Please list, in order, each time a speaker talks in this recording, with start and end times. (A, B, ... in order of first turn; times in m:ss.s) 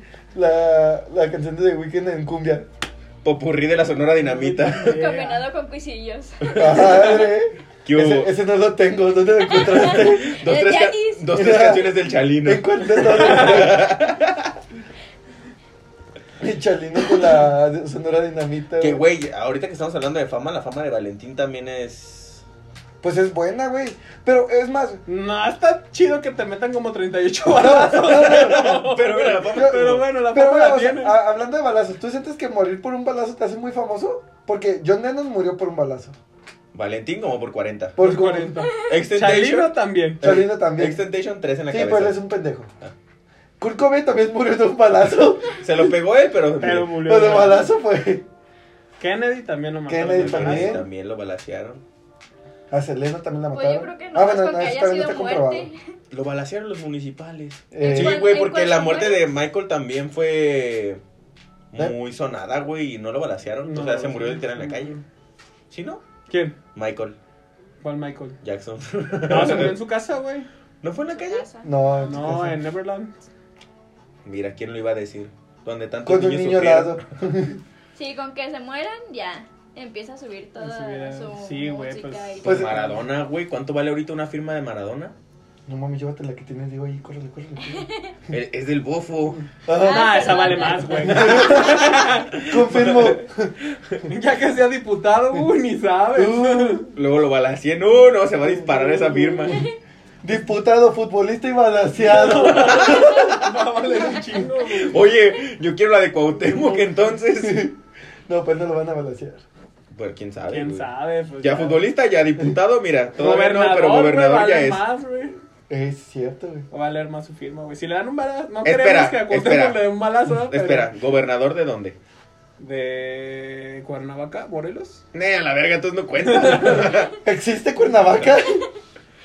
0:00.3-0:02.7 A
0:03.2-0:05.0 B
0:04.4-0:05.4 C
0:04.8-0:06.5 D
0:06.4-0:07.2 B
0:06.5-0:10.4 A
0:06.9-0:07.3 C
0:07.8-0:08.3 B
0:09.5-0:11.3 D
0:09.9-0:14.6 B
0:11.3-0:11.9 A
0:12.4-0:13.9 A
0:13.0-0:13.7 C
0:16.4-0:19.0 A
0:18.8-0:22.4 B
0:23.0-0:25.0 A
0:25.1-0:31.2 C
0:27.4-0:28.8 A
0:28.0-0:30.1 B
0:29.5-0:36.1 A
0:36.7-0:38.0 B
0:38.0-0:38.6 A
0:38.0-0:40.2 C
0:38.8-0:42.2 B
0:40.2-0:41.0 A
0:41.7-0:42.7 A
0:43.6-0:45.6 A
0:45.6-0:47.3 B
0:46.6-0:47.7 C
0:47.0-0:48.2 A
0:49.0-0:50.8 C
0:49.9-0:50.9 A
0:50.1-0:51.8 B
0:52.7-0:55.7 A
0:53.5-0:55.8 D
0:56.1-1:01.0 B
0:57.7-0:58.2 A
0:57.8-0:59.2 D
1:01.7-1:05.0 B
1:03.6-1:05.0 C
1:05.7-1:06.0 B
1:06.3-1:06.6 C
1:06.7-1:07.2 B
1:07.8-1:08.4 C
1:08.4-1:09.8 B
1:09.3-1:10.5 C
1:10.8-1:11.4 B
1:11.1-1:11.7 D
1:11.6-1:12.6 A
1:12.0-1:13.2 C
1:14.2-1:17.0 B
1:16.0-1:17.6 A
1:18.0-1:22.6 D
1:20.6-1:23.0 C
1:22.4-1:22.8 A
1:22.4-1:25.1 B
1:25.7-1:27.9 A
1:27.6-1:28.1 D
1:28.3-1:29.5 B
1:29.7-1:30.3 A
1:29.8-1:31.9 D
1:29.8-1:32.4 C
1:31.1-1:34.1 B
1:31.1-1:33.5 A
1:34.1-1:36.9 C
1:36.2-1:36.9 A
1:37.0-1:39.6 B
1:38.5-1:39.6 A
1:40.2-1:43.5 A
1:42.0-1:45.0 C
1:44.7-1:47.7 B
1:47.4-1:47.8 A
1:48.3-1:49.4 A
1:49.9-1:50.9 B
1:50.5-1:51.8 C
1:51.4-1:54.8 B
1:53.2-1:55.4 C
1:55.7-1:56.7 A
1:56.7-2:00.9 C
1:58.6-2:02.0 B
2:02.6-2:05.0 C
2:05.1-2:07.2 B
2:06.2-2:07.0 C
2:07.2-2:08.6 A